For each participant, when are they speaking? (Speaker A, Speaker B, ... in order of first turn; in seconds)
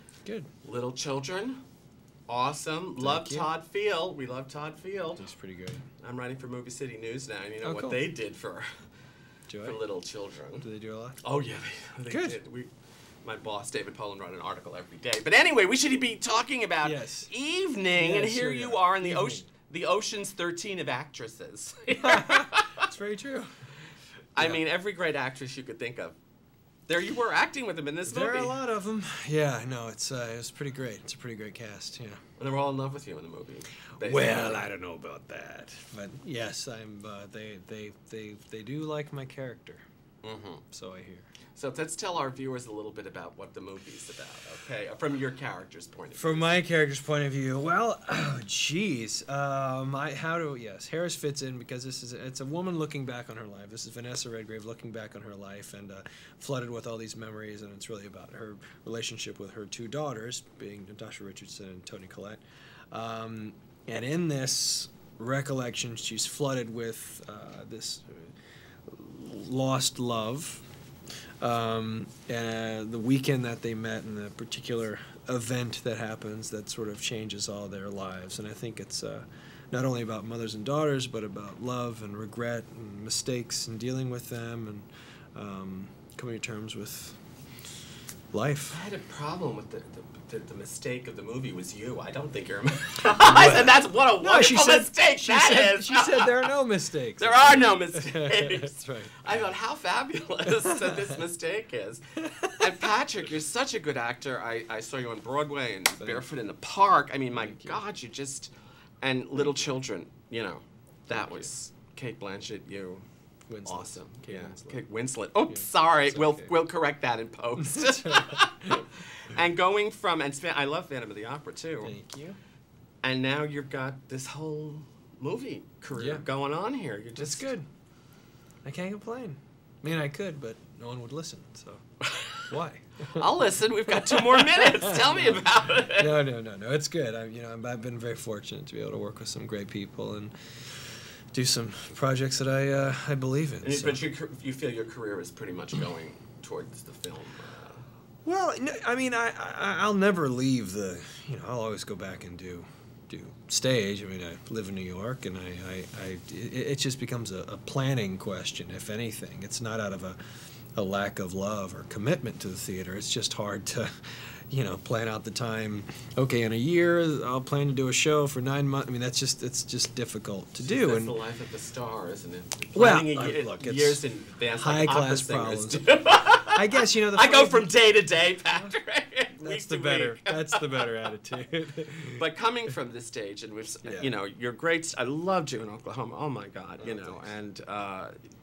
Speaker A: 0.6-1.6, 2.3-5.2, 6.0-8.7, 9.6-10.7, 11.2-12.7, 13.2-22.9, 24.4-26.1, 26.9-28.6, 32.4-34.6, 40.2-40.6, 41.5-46.6, 88.7-96.5, 97.2-113.0, 113.7-122.0, 123.0-127.5, 132.0-132.4, 133.2-136.1, 143.6-147.8, 170.6-180.9, 182.1-188.1
Speaker B: 3.0-3.5, 5.2-5.9, 7.6-8.1, 9.5-9.8, 10.6-11.2, 12.1-12.4, 16.8-17.3, 17.9-19.4, 22.0-23.5, 28.1-32.2, 34.0-39.8, 40.7-41.3, 46.1-68.3, 68.9-70.7, 71.4-87.2, 88.3-88.8, 93.2-99.2, 100.5-101.1, 102.2-102.8, 106.0-106.2, 107.3-107.8, 111.1-111.5, 113.5-114.8, 115.5-116.5, 117.7-118.8, 121.8-122.4, 126.0-126.2, 127.2-127.7, 128.6-131.8, 132.5-133.4, 134.0-144.0, 148.2-160.2, 160.8-171.2, 172.7-174.0, 174.5-175.9, 176.5-177.7, 178.3-178.7, 179.4-182.2, 183.8-184.1, 186.8-187.3